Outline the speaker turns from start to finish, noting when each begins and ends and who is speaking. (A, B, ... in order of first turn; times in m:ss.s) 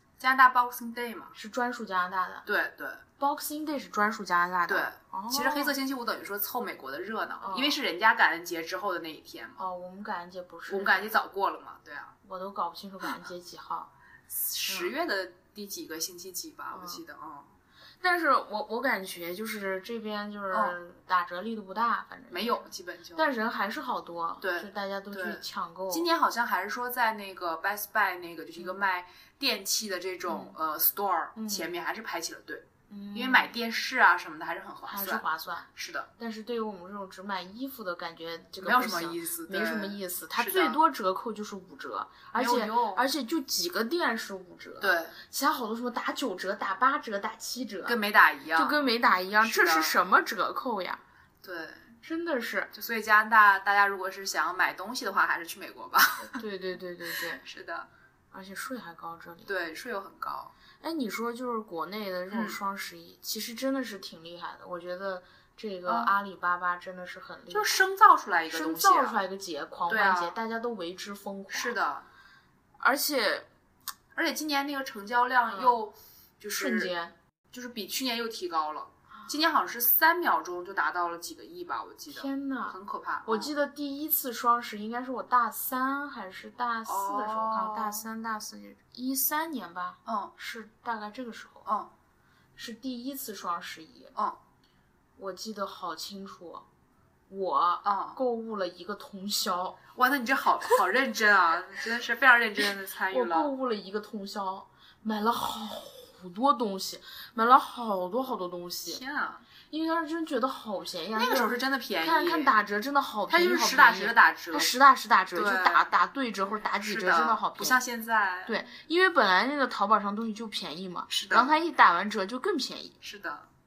0:00.2-0:01.3 A
0:01.3-0:02.4 B
0:02.4-0:03.0 A
0:03.2-0:05.7 B
0:04.7-0:09.6 A
0:07.4-0:07.8 B
0:09.6-0:11.1 B
0:10.7-0:12.1 A
0:12.2-0:13.9 B
0:14.3-0:17.5 A
0:14.7-0:14.9 B
0:16.7-0:17.0 B
0:18.0-0:26.1 B
0:22.3-0:23.2 A
0:24.4-0:35.2 A
0:30.3-0:30.6 B
0:31.4-0:31.7 B
0:32.9-0:33.6 B
0:34.9-0:48.0 B
0:35.7-0:36.1 A
0:38.6-0:40.8 A
0:42.3-0:43.0 A
0:44.8-0:45.2 A
0:47.8-0:48.8 A
0:48.5-0:51.0 B
0:49.4-0:50.0 A
0:51.4-0:51.9 A
0:52.0-0:52.7 B
0:52.7-0:56.4 A
0:56.2-0:57.4 B
0:57.4-0:57.9 A
0:58.3-0:59.5 B
0:59.4-1:00.5 A
1:00.8-1:07.8 B
1:02.3-1:02.6 A
1:05.8-1:06.1 A
1:07.5-1:09.2 A
1:08.5-1:11.8 B
1:09.9-1:10.4 A
1:11.5-1:12.0 A
1:12.8-1:13.5 B
1:14.1-1:16.9 A
1:15.5-1:15.8 B
1:16.6-1:17.1 B
1:17.5-1:23.5 A
1:22.1-1:31.6 B
1:26.8-1:28.0 A
1:30.0-1:30.3 A
1:31.6-1:31.9 A
1:32.6-1:34.1 B
1:35.2-1:36.6 B
1:37.3-1:39.8 B
1:37.8-1:38.2 A
1:39.9-1:43.5 A
1:43.1-1:49.0 B
1:48.8-1:49.4 A
1:49.7-1:57.8 B
1:51.1-1:52.5 A
1:53.3-1:54.7 A
1:55.3-1:55.9 A
1:56.8-1:58.6 A
1:58.4-2:03.0 B
2:01.1-2:01.5 A
2:03.0-2:03.5 A